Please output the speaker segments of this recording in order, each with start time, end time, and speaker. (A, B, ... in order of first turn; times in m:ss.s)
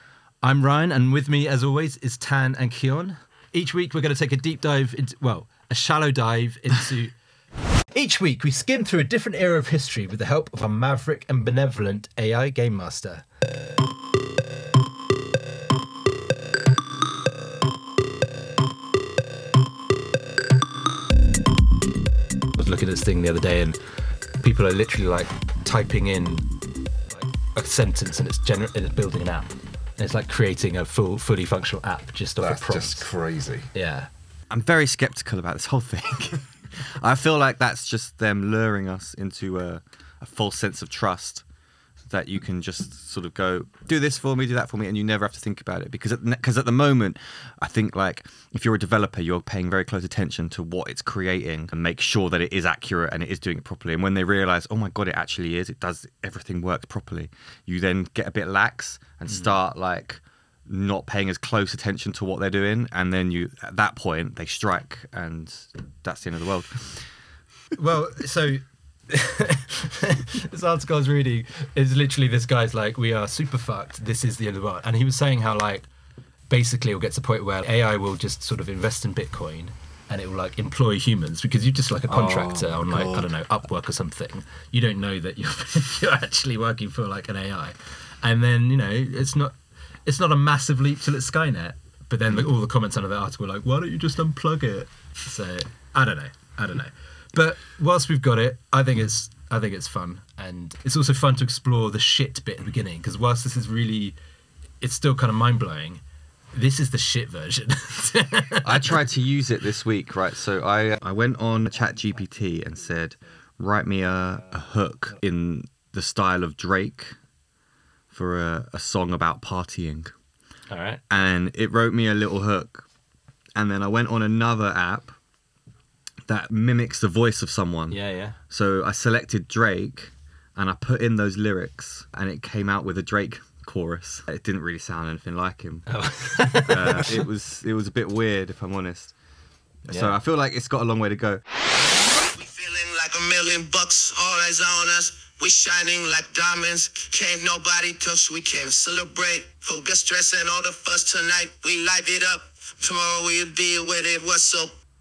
0:00.4-0:07.1 A
0:07.9-0:13.2 A
0:22.5-0:23.8 A
0:24.4-0:26.5 A
0:27.1-0:33.1 A
0:32.4-0:33.7 B
0:33.7-0:34.1 A
0:34.5-0:41.4 C
0:42.1-1:07.1 C
1:07.7-1:15.9 A
1:16.5-1:44.2 A
1:22.1-1:23.3 B
1:44.8-1:46.0 A
1:46.5-1:48.9 A
1:48.6-1:57.2 C
1:58.1-2:00.1 C
2:00.7-2:01.0 A
2:01.1-2:02.8 C
2:03.6-2:05.1 C
2:06.2-2:15.9 C
2:07.9-2:08.4 A
2:15.9-2:17.2 A
2:16.5-2:19.1 C
2:19.9-2:20.2 A
2:19.9-2:21.4 C
2:22.3-2:34.7 D